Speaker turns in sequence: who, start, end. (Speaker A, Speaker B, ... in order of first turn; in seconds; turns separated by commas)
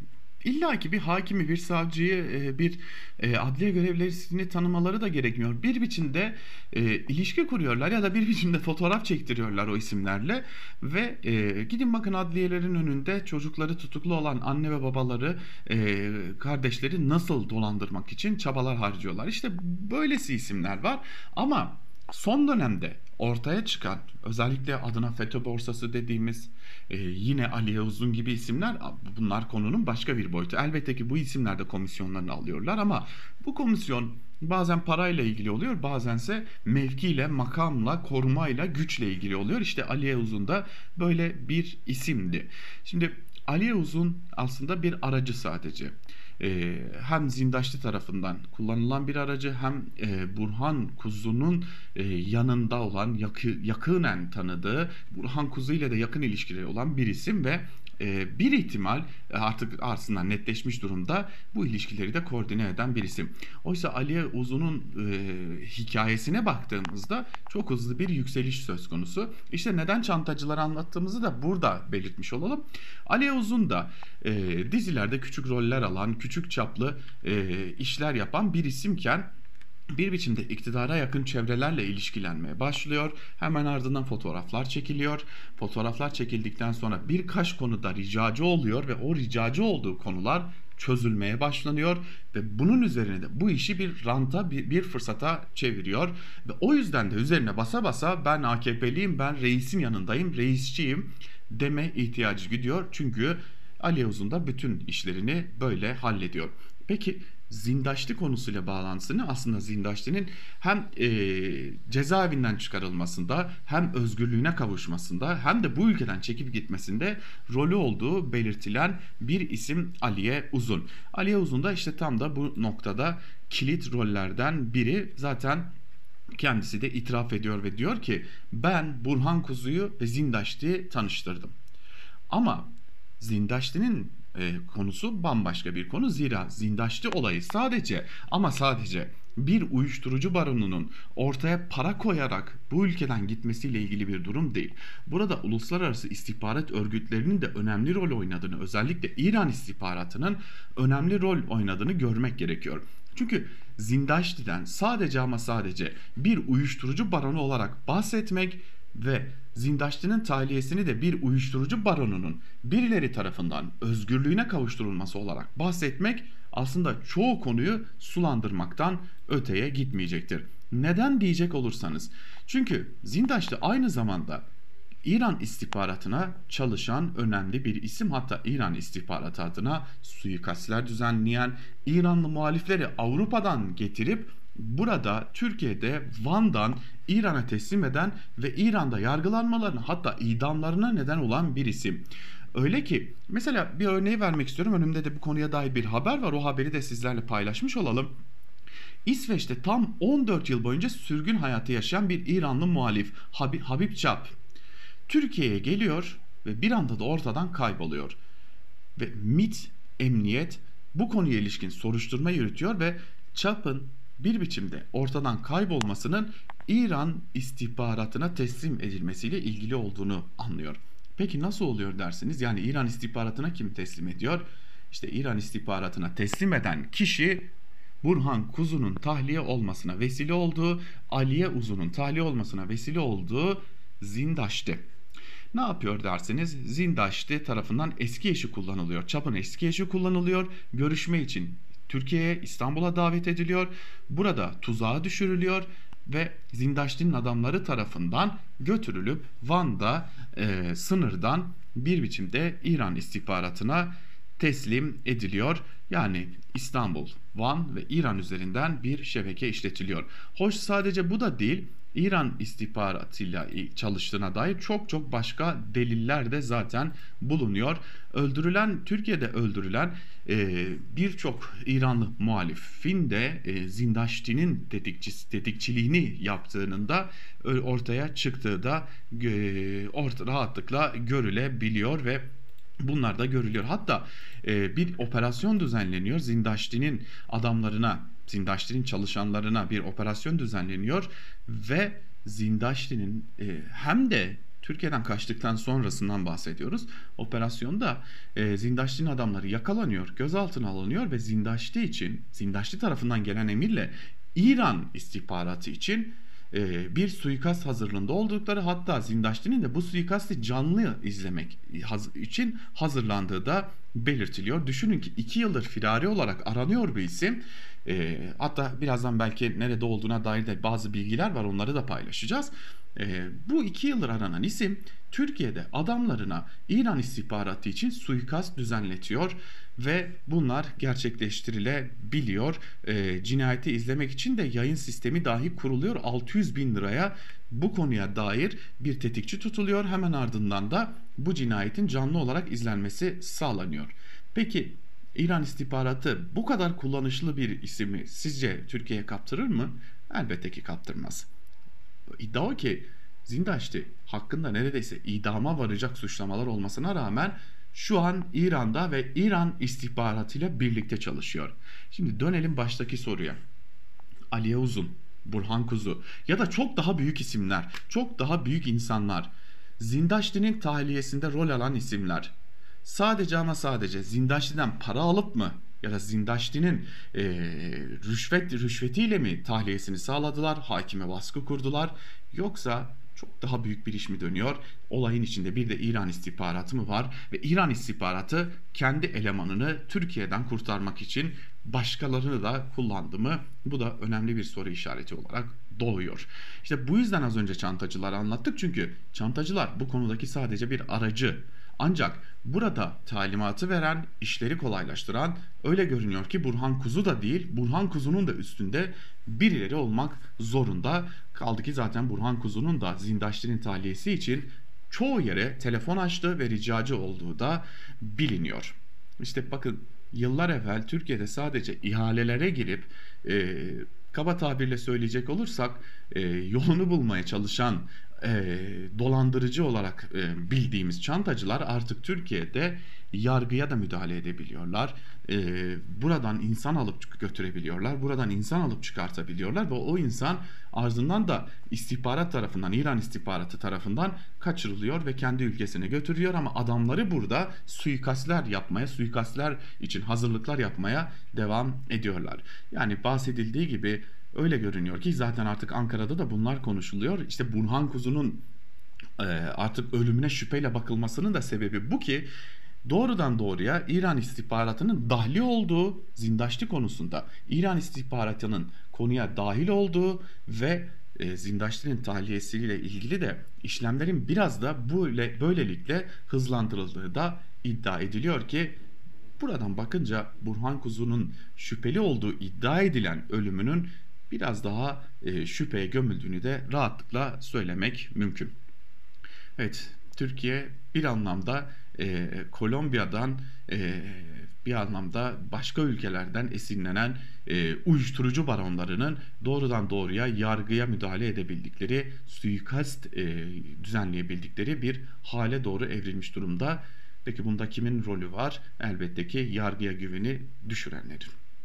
Speaker A: 0.4-79.3, Speaker A: 80.0-125.8, Speaker A: 126.4-131.6, Speaker A: 132.3-174.5, Speaker A: 175.0-198.1, Speaker A: 199.1-204.3, Speaker A: 205.1-208.2, Speaker A: 209.0-234.8, Speaker A: 235.5-282.3, Speaker A: 282.8-351.3, Speaker A: 352.2-363.4, Speaker A: 364.3-458.4, Speaker A: 459.2-462.3, Speaker A: 462.8-478.8, Speaker A: 479.4-488.5, Speaker A: 489.6-511.3